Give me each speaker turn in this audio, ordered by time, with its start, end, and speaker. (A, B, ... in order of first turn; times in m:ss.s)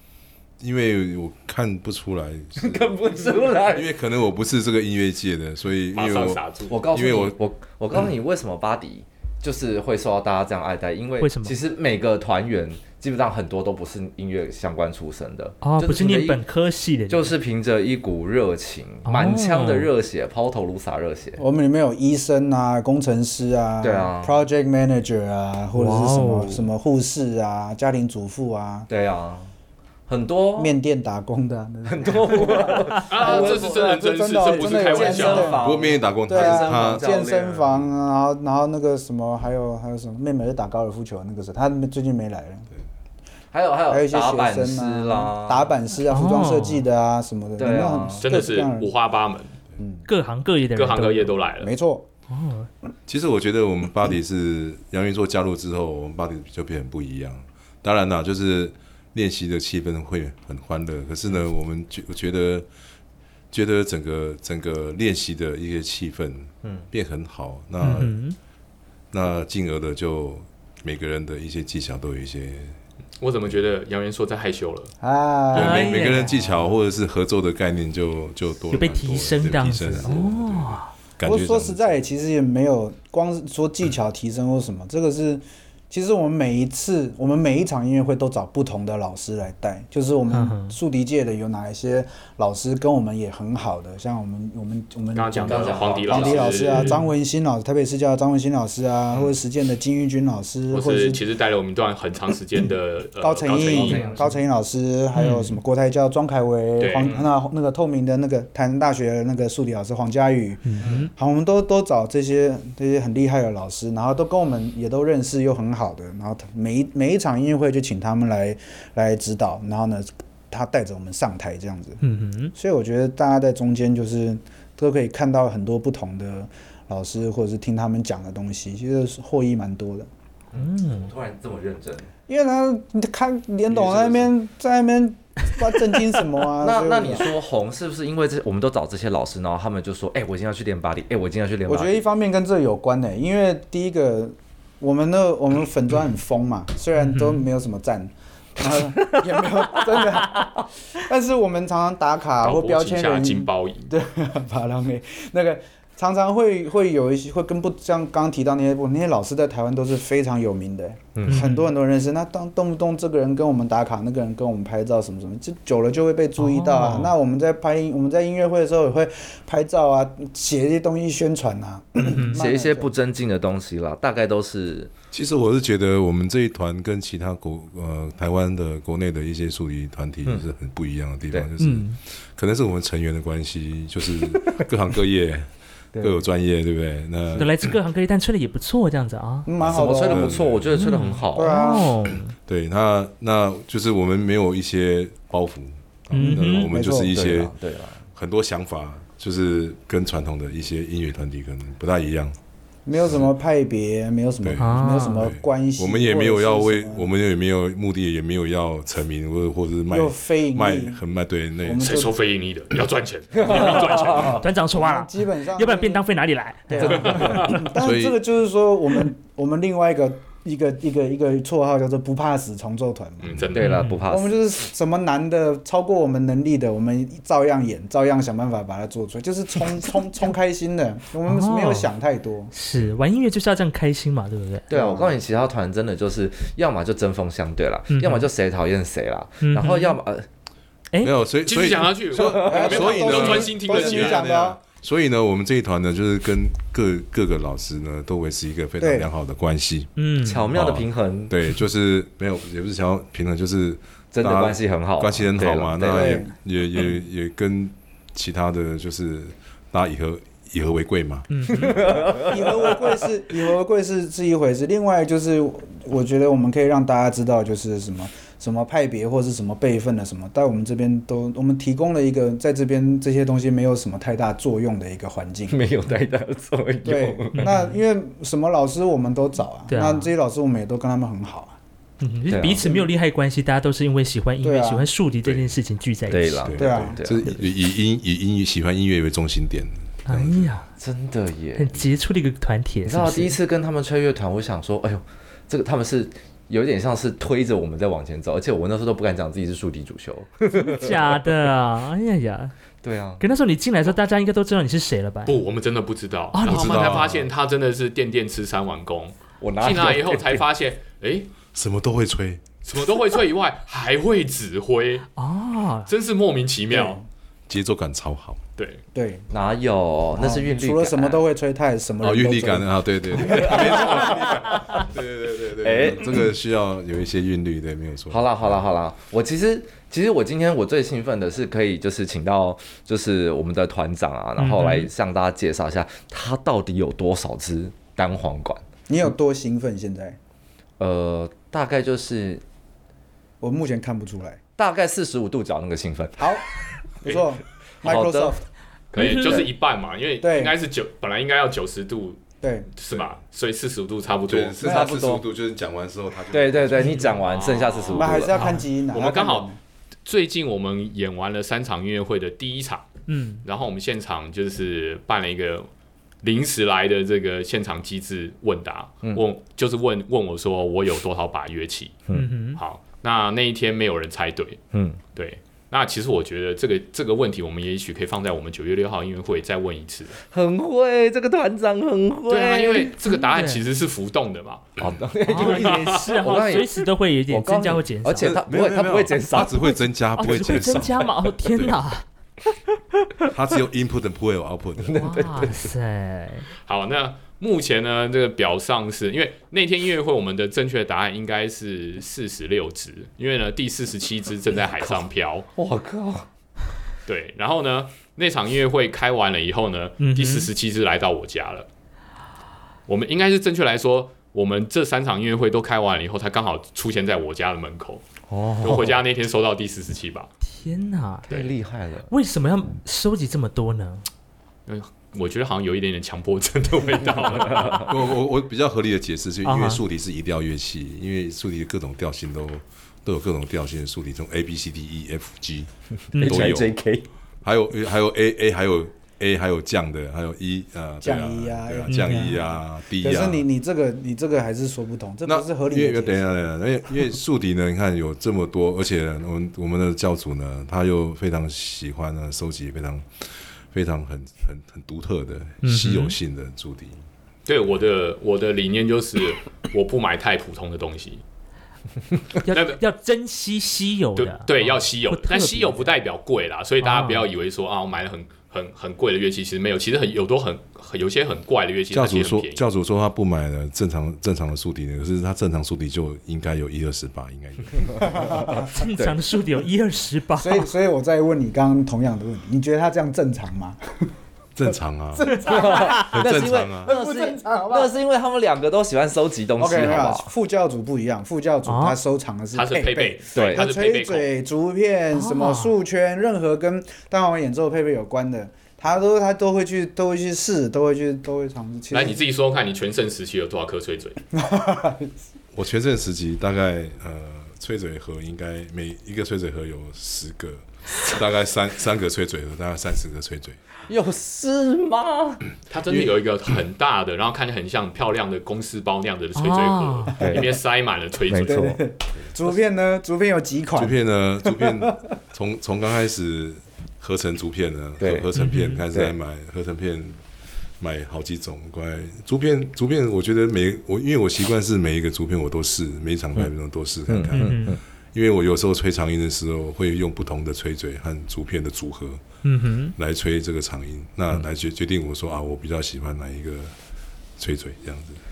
0:00.6-0:03.0 A
0:02.6-0:03.9 B
0:03.6-0:07.4 A
0:05.9-0:06.8 C
0:06.7-0:16.4 B
0:11.2-0:11.6 D
0:15.6-0:17.3 D
0:17.1-0:21.4 B
0:19.0-0:19.9 D
0:21.4-0:28.9 E
0:23.8-0:24.4 B
0:25.7-0:26.7 D
0:28.9-0:29.5 B
0:30.1-0:30.7 B
0:30.6-0:35.6 E
0:31.9-0:33.7 B
0:33.0-0:35.6 C
0:34.5-0:37.6 B
0:35.6-0:37.1 A
0:36.3-0:42.7 E
0:43.5-0:45.7 B
0:43.9-0:48.9 E
0:46.1-0:46.8 D
0:47.6-0:48.2 B
0:48.2-0:49.6 C
0:49.8-0:50.1 E
0:50.1-0:51.3 D
0:50.7-0:51.7 C
0:51.6-0:52.1 E
0:52.3-0:52.7 D
0:53.1-1:02.7 A
1:03.5-1:08.2 A
1:06.6-1:06.9 B
1:07.8-1:08.4 D
1:09.1-1:12.8 A
1:13.2-1:14.9 C
1:15.0-1:16.1 E
1:15.5-1:16.4 D
1:15.5-1:21.9 A
1:18.7-1:20.9 D
1:21.2-1:41.2 E
1:30.3-1:30.8 D
1:35.1-1:37.0 C
1:35.4-1:36.7 B
1:36.7-1:37.1 D
1:40.7-1:44.2 C
1:43.2-2:02.0 E
1:43.5-1:44.3 B
1:45.1-1:45.6 D
1:46.8-1:47.2 C
1:47.0-1:47.3 B
1:50.6-1:51.1 D
1:50.8-1:51.1 B
2:02.0-2:02.5 D
2:02.5-2:10.1 E
2:10.5-2:12.1 B
2:10.5-2:11.1 D
2:12.3-2:17.3 E
2:13.7-2:14.3 B
2:16.6-2:22.0 B
2:21.6-2:52.9 E
2:27.0-2:27.4 D
2:29.8-2:30.6 B
2:32.4-2:33.9 C
2:41.2-2:41.4 B
2:41.2-2:41.7 D
2:46.4-2:47.1 D
2:52.0-2:52.4 D
2:52.3-2:54.9 B
2:55.1-3:07.7 A
3:01.6-3:02.0 D
3:05.9-3:06.2 E
3:07.3-3:09.5 D
3:09.4-3:10.3 E
3:09.6-3:10.8 A
3:09.7-3:11.6 B
3:10.7-3:12.3 D
3:11.3-3:11.9 E
3:12.4-3:17.6 A
3:16.1-3:16.7 D
3:16.5-3:17.2 E
3:17.1-3:18.0 B
3:18.1-3:22.4 A
3:22.8-3:27.0 E
3:23.0-3:23.3 A
3:24.4-3:31.9 A
3:24.6-3:25.3 D
3:29.9-3:31.0 E
3:31.6-3:32.1 E
3:31.8-3:34.4 C
3:33.3-3:34.4 B
3:33.4-3:37.6 D
3:34.2-3:36.0 E
3:36.7-3:43.3 E
3:37.3-3:38.2 A
3:43.2-3:43.9 C
3:43.5-3:44.4 B
3:43.6-3:44.0 D
3:44.1-3:52.5 E
3:51.2-3:51.9 D
3:52.5-3:54.7 D
3:54.7-4:00.3 B
3:54.7-3:55.2 E
3:57.9-3:58.3 D
3:59.4-4:00.0 D
4:01.0-4:09.9 A
4:01.4-4:04.2 C
4:02.1-4:02.7 B
4:02.2-4:04.6 E
4:08.8-4:09.1 E
4:10.0-4:10.5 D
4:10.2-4:11.3 B
4:10.5-4:21.4 A
4:14.1-4:16.2 B
4:15.8-4:16.3 E
4:21.3-4:21.8 D
4:21.5-4:22.7 B
4:21.8-4:35.6 E
4:35.5-4:37.6 B
4:36.8-4:41.6 E
4:37.3-4:37.7 D
4:39.7-4:40.1 D
4:42.0-4:46.5 D
4:42.3-4:42.7 B
4:42.6-4:42.9 E
4:44.4-4:44.9 E
4:45.2-4:45.5 A
4:46.1-4:47.2 B
4:46.4-4:50.5 A
4:46.6-4:47.0 E
4:50.0-4:50.7 D
4:50.8-4:51.9 B
4:51.6-4:53.4 D
4:52.8-5:01.1 B
5:00.5-5:02.5 D
5:02.8-5:03.2 B
5:03.2-5:05.4 D
5:05.2-5:11.3 C
5:06.3-5:07.1 D
5:06.4-5:07.3 A
5:09.4-5:10.4 B
5:11.5-5:12.4 A
5:12.6-5:15.1 C
5:15.2-5:15.9 D
5:15.9-5:17.0 C
5:16.7-5:17.0 E
5:17.5-5:18.4 A
5:18.6-5:18.8 C
5:18.9-5:19.3 E
5:19.3-5:21.2 B
5:20.1-5:24.2 E
5:22.0-5:28.6 A
5:23.2-5:24.4 B
5:25.6-5:26.3 B
5:28.1-5:38.6 B
5:34.4-5:34.9 D
5:38.9-5:40.2 E
5:40.8-5:42.4 B
5:43.4-5:44.4 E
5:44.6-5:46.3 B
5:46.2-5:46.4 E
5:47.0-5:48.4 E
5:47.8-5:48.3 B
5:48.9-5:52.2 C
5:48.9-5:49.5 D
5:50.2-5:50.6 E
5:52.4-5:52.7 E
5:52.8-5:54.6 C
5:54.3-5:57.1 A
5:54.6-5:55.2 B
5:54.6-5:55.0 E
5:56.3-5:58.4 B
5:56.8-5:57.1 D
5:57.1-5:58.3 C
5:57.9-5:59.6 E
5:58.3-5:58.6 D
5:58.9-5:59.5 C
6:00.0-6:05.7 C
6:03.1-6:03.4 D
6:06.2-6:12.0 C
6:12.1-6:12.6 D
6:12.6-6:14.6 C
6:14.7-6:15.0 B
6:15.1-6:20.2 C
6:20.2-6:22.9 B
6:22.3-6:24.8 C
6:23.0-6:23.6 D
6:24.8-6:29.6 B
6:25.2-6:28.4 D
6:25.3-6:26.3 C
6:28.2-6:31.8 A
6:29.4-6:32.0 D
6:33.3-6:35.0 A
6:34.8-6:35.7 B
6:34.9-6:36.5 D
6:36.6-6:45.5 C
6:45.6-6:46.3 B
6:47.0-6:51.7 C
6:50.0-6:50.5 D
6:52.9-6:58.0 C
6:58.3-6:59.0 B
6:58.6-7:00.3 C
7:00.4-7:01.3 D
7:01.3-7:01.5 C
7:01.3-7:02.1 B
7:02.1-7:04.0 D
7:04.7-7:07.9 C
7:07.8-7:16.7 A
7:09.4-7:09.8 D
7:16.1-7:16.6 D
7:16.1-7:17.1 B
7:17.4-7:23.4 A
7:21.0-7:26.2 E
7:21.9-7:22.4 D
7:25.2-7:37.0 A
7:35.6-7:36.2 D
7:37.4-7:41.2 C
7:42.4-7:45.9 D
7:42.5-7:42.8 C
7:44.2-7:52.6 C
7:46.8-7:47.2 D
7:51.9-7:58.6 A
7:58.0-7:58.7 E
7:58.6-8:00.7 D
8:00.4-8:04.1 E
8:04.6-8:06.9 A
8:05.1-8:07.9 E
8:05.4-8:10.3 B
8:09.6-8:22.2 E
8:11.7-8:12.0 D
8:12.5-8:14.2 C
8:13.3-8:13.6 B
8:15.1-8:15.7 D
8:21.9-8:24.2 C
8:24.3-8:25.2 E
8:25.5-8:33.6 A
8:33.9-8:35.4 B
8:35.7-8:41.7 C
8:39.3-8:40.1 D
8:40.2-8:40.5 B
8:41.3-8:41.8 B
8:41.4-8:45.0 E
8:43.7-8:50.2 A
8:48.0-8:48.3 B
8:48.3-8:48.8 D
8:50.8-9:02.2 A
8:57.1-8:57.8 B
8:57.3-8:57.8 D
9:02.4-9:02.9 D
9:03.0-9:06.7 A
9:07.4-9:08.2 A